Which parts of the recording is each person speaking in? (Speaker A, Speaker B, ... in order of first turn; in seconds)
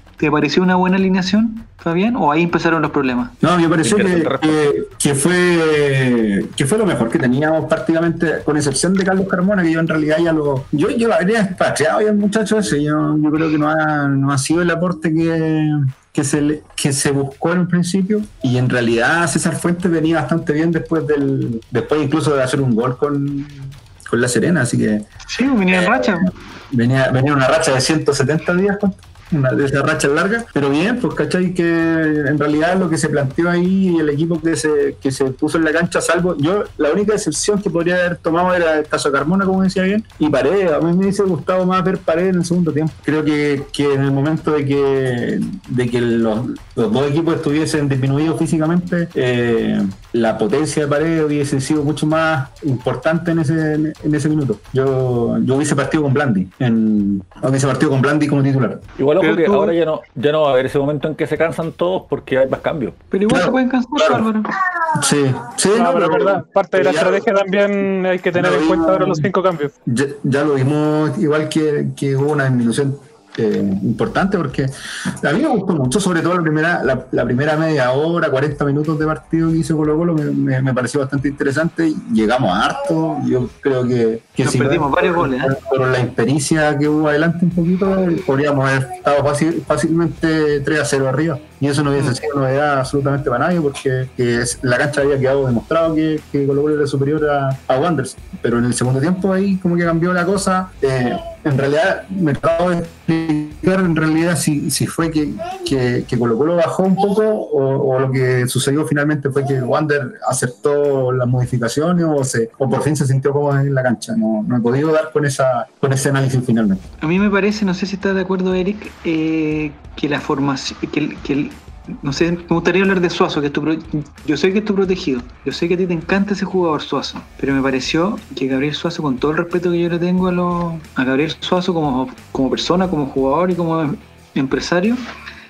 Speaker A: 0.2-3.4, 25.3-26.3, 59.2-59.8, 63.1-64.5, 84.4-85.5, 117.0-135.0
Speaker B: 3.4-25.1, 25.7-58.8, 63.3-64.3, 64.9-67.2, 68.3-69.3, 69.9-74.7, 75.2-116.8
Speaker C: 3.8-4.7, 59.0-63.0
Speaker D: 65.8-69.7